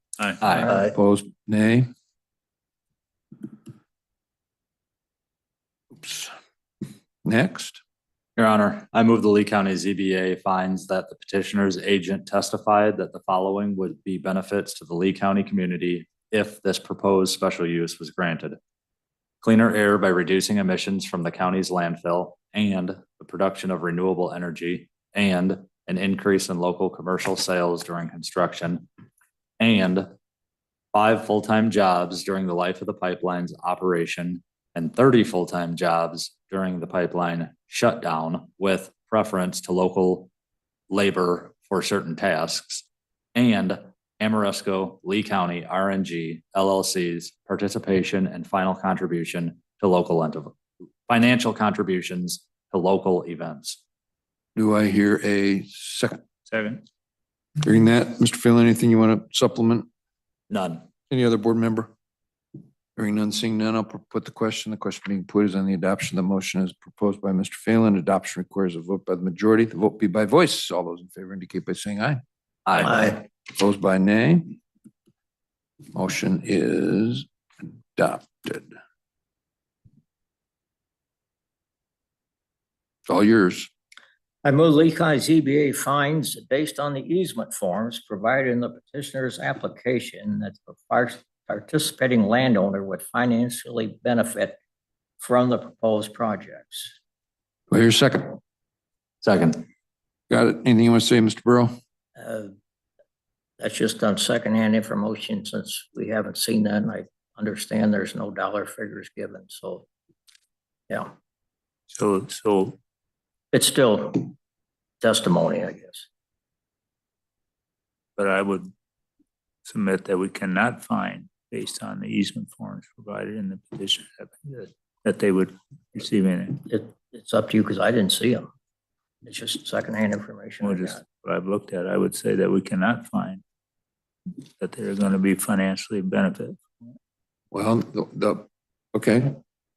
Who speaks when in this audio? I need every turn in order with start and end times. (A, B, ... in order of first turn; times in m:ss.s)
0:00.4-0:00.7 A
0:00.7-0:01.9 B
0:06.0-0:06.3 B
0:07.2-0:07.8 B
0:08.4-0:18.6 A
0:19.4-0:28.9 A
0:29.6-0:30.1 A
0:30.9-0:40.3 A
0:40.9-0:50.5 A
0:51.1-0:53.8 A
0:54.6-0:56.2 B
0:56.5-0:56.8 C
0:57.6-0:59.9 B
1:00.5-1:00.9 A
1:01.1-1:01.9 B
1:03.0-1:12.2 B
1:12.6-1:13.1 A
1:13.0-1:14.6 B
1:15.9-1:17.3 B
1:18.0-1:18.7 B
1:23.1-1:23.7 B
1:24.4-1:34.6 D
1:35.2-1:37.0 D
1:37.7-1:38.4 B
1:39.2-1:39.7 A
1:40.3-1:41.7 B
1:42.2-1:42.5 D
1:43.6-1:49.8 D
1:51.9-1:52.8 C
1:53.5-1:54.3 D
1:55.0-1:56.1 D
1:58.2-1:58.7 C
1:59.6-2:06.6 C
2:06.7-2:08.5 D
2:09.2-2:11.0 D
2:10.6-2:13.4 C
2:14.3-2:16.6 C
2:17.5-2:19.4 B